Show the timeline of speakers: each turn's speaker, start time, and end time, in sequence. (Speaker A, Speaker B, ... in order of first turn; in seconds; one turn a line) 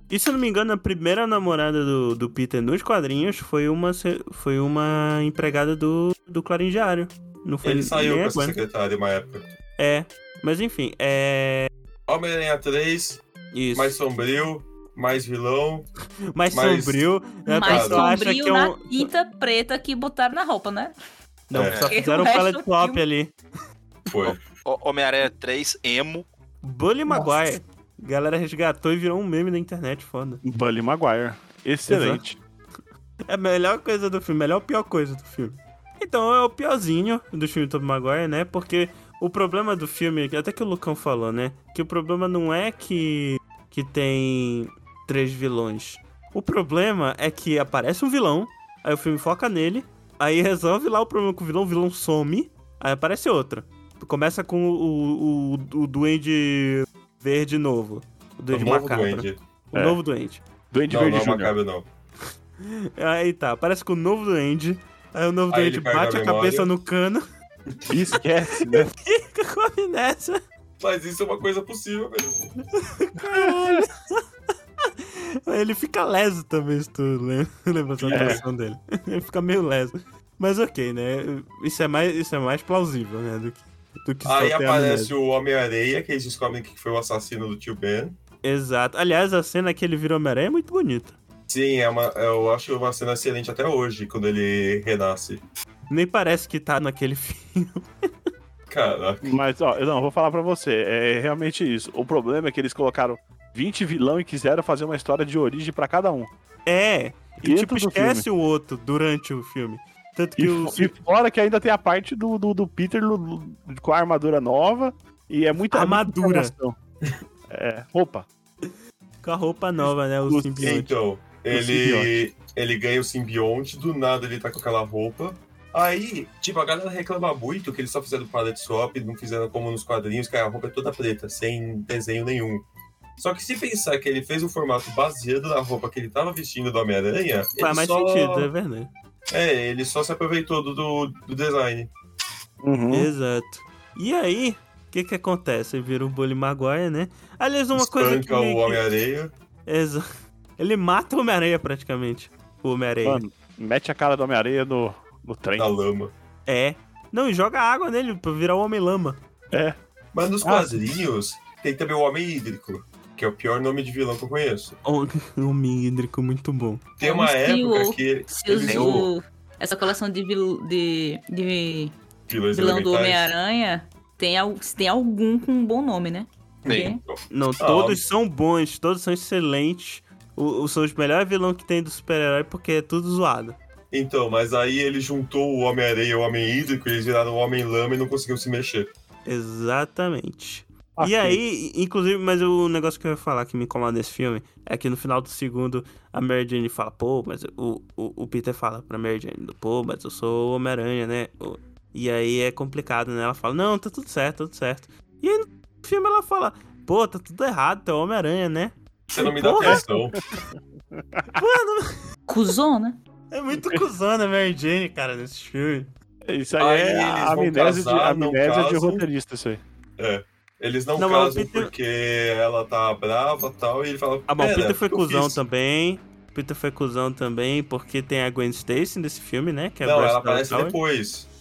Speaker A: 0.1-8.6
Speaker B: 7.6-9.5
Speaker A: 9.8-11.7
Speaker B: 12.1-13.2
Speaker A: 13.5-14.0
Speaker B: 13.7-15.9
Speaker A: 16.3-19.1
Speaker B: 16.5-17.0
Speaker C: 17.5-20.9
Speaker B: 17.6-18.1
Speaker A: 21.5-23.3
Speaker B: 21.5-21.9
Speaker D: 21.7-21.9
Speaker C: 21.9-23.0
Speaker B: 24.1-24.4
Speaker D: 24.3-26.3
Speaker A: 26.6-30.4
Speaker E: 30.4-32.4
Speaker A: 31.9-32.2
Speaker A: 33.3-60.4
Speaker B: 58.5-59.4
Speaker E: 59.7-60.0
Speaker E: 60.7-61.5
Speaker B: 60.9-61.9
Speaker A: 62.6-67.2
Speaker B: 65.5-66.7
Speaker B: 67.7-68.0
Speaker E: 67.9-68.9
Speaker A: 68.6-70.4
Speaker B: 70.8-72.5
Speaker A: 72.8-74.2
Speaker E: 73.3-73.8
Speaker A: 74.8-85.1
Speaker B: 78.0-78.5
Speaker E: 78.1-78.4
Speaker B: 84.2-88.2
Speaker A: 88.4-91.2
Speaker B: 91.5-95.4
Speaker A: 95.9-97.9
Speaker B: 98.7-99.2
Speaker E: 99.2-106.3
Speaker A: 106.7-110.9
Speaker E: 107.4-108.3
Speaker E: 110.4-116.8
Speaker A: 115.7-116.5
Speaker E: 117.5-118.3
Speaker A: 119.2-120.9
Speaker E: 119.9-120.6
Speaker B: 120.6-132.7
Speaker E: 121.5-122.1
Speaker B: 133.2-138.5
Speaker A: 137.6-138.9
Speaker B: 139.3-141.9
Speaker E: 142.6-143.1
Speaker A: 142.9-148.9
Speaker B: 147.8-149.3
Speaker A: 149.7-150.1
Speaker A: 150.6-153.2
Speaker E: 153.1-155.7
Speaker B: 155.6-156.1
Speaker A: 156.5-159.2
Speaker B: 160.1-164.8
Speaker E: 160.4-160.8
Speaker A: 164.8-166.9
Speaker B: 167.0-169.1
Speaker C: 167.0-172.0
Speaker D: 168.7-169.1
Speaker B: 172.3-173.3
Speaker C: 172.5-177.0
Speaker B: 176.7-178.0
Speaker D: 176.7-176.9
Speaker A: 177.3-183.6
Speaker B: 183.9-188.9
Speaker A: 189.3-209.8
Speaker E: 191.0-191.4
Speaker B: 209.1-210.2
Speaker E: 209.6-211.4
Speaker A: 211.3-212.0
Speaker C: 212.3-213.0
Speaker A: 213.3-215.9
Speaker E: 213.6-213.8
Speaker E: 216.3-219.6
Speaker B: 216.6-219.1
Speaker B: 220.0-225.4
Speaker A: 221.0-221.7
Speaker A: 224.3-230.8
Speaker B: 229.8-231.3